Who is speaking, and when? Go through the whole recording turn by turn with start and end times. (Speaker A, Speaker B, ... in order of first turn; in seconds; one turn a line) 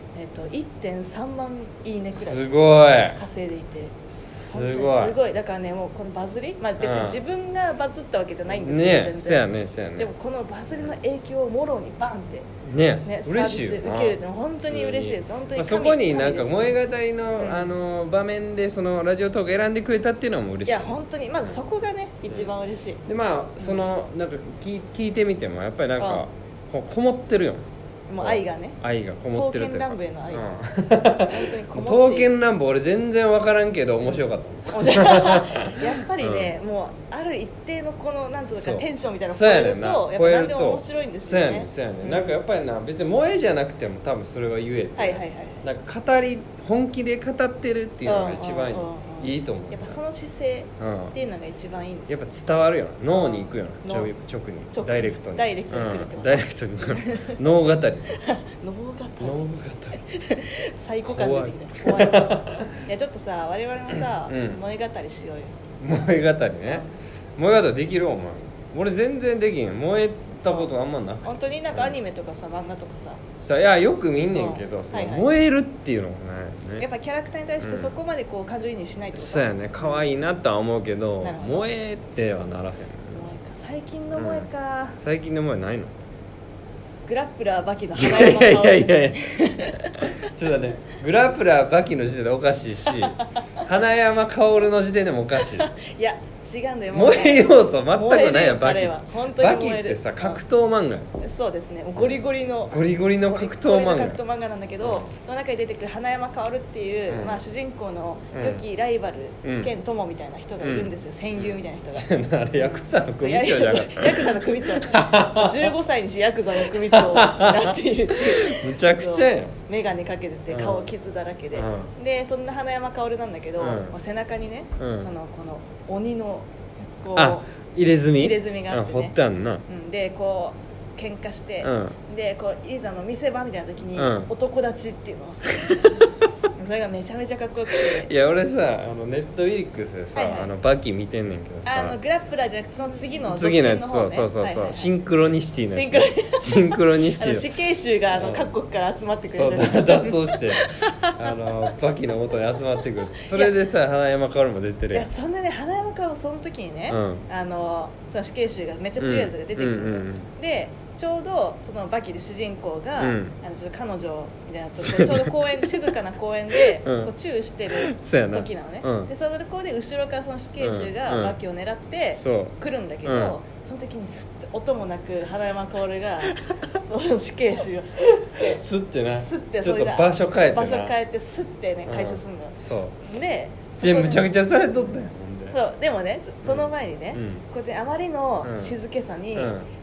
Speaker A: 0.1-2.5
Speaker B: 2.1-3.2
Speaker A: 3.1-4.0
Speaker B: 4.1-5.2
Speaker A: 4.5-9.5
Speaker B: 6.8-7.2
Speaker B: 8.5-10.1
Speaker A: 10.0-12.5
Speaker B: 12.7-21.0
Speaker A: 13.0-16.8
Speaker A: 17.4-17.7
Speaker A: 20.7-23.0
Speaker B: 23.1-27.7
Speaker A: 26.0-26.2
Speaker A: 28.1-28.8
Speaker B: 28.2-36.5
Speaker A: 29.3-32.4
Speaker A: 34.7-42.4
Speaker B: 38.6-50.0
Speaker A: 45.0-45.6
Speaker A: 48.0-52.1
Speaker B: 50.8-51.1
Speaker B: 52.1-58.1
Speaker A: 53.1-54.1
Speaker A: 54.7-57.4
Speaker A: 58.1-59.5
Speaker B: 59.2-60.0
Speaker A: 60.0-65.5
Speaker B: 61.1-62.7
Speaker B: 64.3-64.6
Speaker B: 65.8-66.8
Speaker A: 66.7-66.9
Speaker B: 67.4-72.0
Speaker A: 71.2-73.2
Speaker B: 73.4-76.8
Speaker A: 74.3-75.3
Speaker A: 76.8-80.1
Speaker B: 77.6-77.9
Speaker B: 79.2-83.2
Speaker A: 81.2-81.7
Speaker A: 83.1-85.0
Speaker B: 84.2-84.5
Speaker B: 85.0-85.9
Speaker A: 87.1-90.1
Speaker B: 88.0-89.2
Speaker B: 90.0-95.7
Speaker A: 92.9-93.3
Speaker A: 95.4-100.4
Speaker B: 96.9-101.1
Speaker A: 101.2-126.5
Speaker B: 102.0-104.2
Speaker B: 104.8-105.1
Speaker B: 107.1-107.4
Speaker B: 108.3-108.6
Speaker B: 109.4-109.7
Speaker B: 110.6-110.9
Speaker B: 111.9-115.7
Speaker B: 116.7-119.5
Speaker B: 120.5-120.9
Speaker B: 121.5-121.9
Speaker B: 123.6-123.9
Speaker B: 124.8-125.1
Speaker A: 127.0-127.5
Speaker B: 127.2-129.6
Speaker A: 128.2-129.2
Speaker A: 129.7-136.0
Speaker B: 131.6-132.0
Speaker B: 134.0-134.3
Speaker A: 136.6-138.1
Speaker B: 137.9-142.0
Speaker A: 140.2-140.5
Speaker A: 141.7-144.9
Speaker B: 143.2-147.5
Speaker A: 145.7-151.3
Speaker B: 148.1-148.5
Speaker B: 149.3-155.1
Speaker A: 153.1-153.6
Speaker A: 154.9-184.9
Speaker B: 156.9-157.2
Speaker B: 159.0-160.3
Speaker B: 163.0-163.3
Speaker B: 164.8-165.8
Speaker B: 166.6-167.1
Speaker B: 167.7-169.1
Speaker B: 170.6-171.4
Speaker B: 172.2-173.4
Speaker B: 178.4-180.9
Speaker B: 181.9-182.9
Speaker B: 183.8-185.6
Speaker A: 185.5-189.6
Speaker B: 186.4-187.4
Speaker B: 188.4-188.7
Speaker B: 189.3-189.7